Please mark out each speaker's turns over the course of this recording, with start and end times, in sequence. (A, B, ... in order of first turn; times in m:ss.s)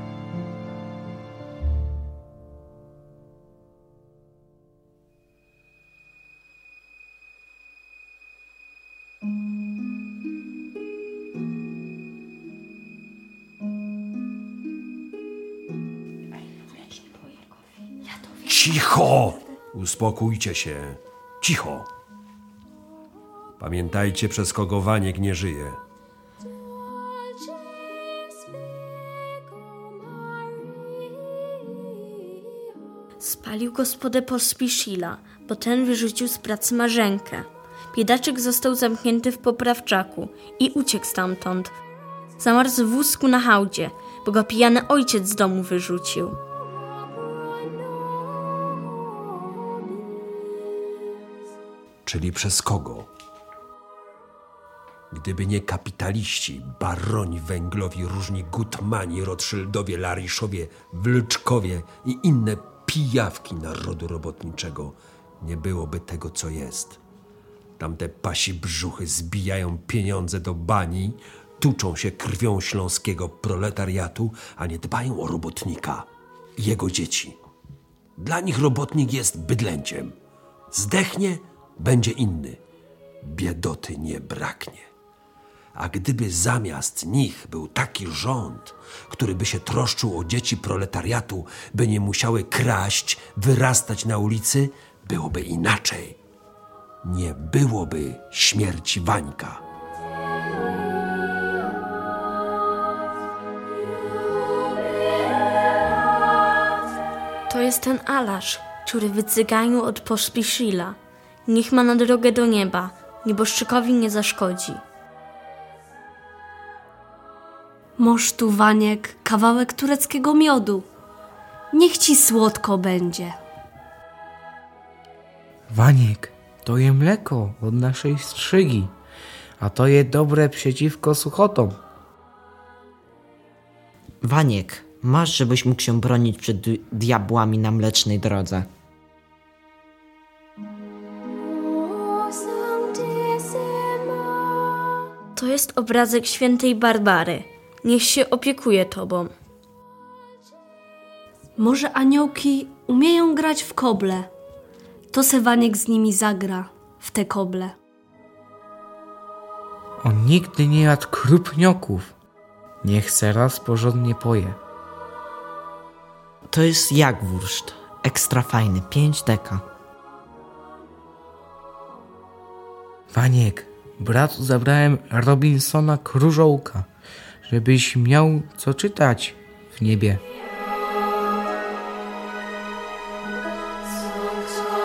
0:18.4-0:21.9 A
0:23.6-0:25.8 A
0:33.2-0:41.8 B
0:42.4-0:46.4 B
0:52.0-0:53.1 A
0:55.1-1:07.0 A
1:07.8-1:16.0 A
1:16.6-1:17.4 A
1:18.2-1:20.1 A
1:20.7-1:22.6 A
1:23.2-1:24.9 A
1:25.8-1:36.2 A
1:37.0-1:39.6 A
1:47.5-1:54.8 B
1:58.0-2:00.9 C
2:01.7-2:03.4 C
2:05.7-2:08.9 D
2:09.6-2:11.8 D
2:14.2-2:18.6 E
2:22.6-2:23.8 C
2:25.4-2:29.3 B
2:31.6-2:34.3 C
2:35.1-2:37.8 C
2:40.0-2:42.1 D
2:42.8-2:44.6 D
2:46.5-2:49.6 E
2:53.1-2:56.9 D
2:57.5-3:00.2 D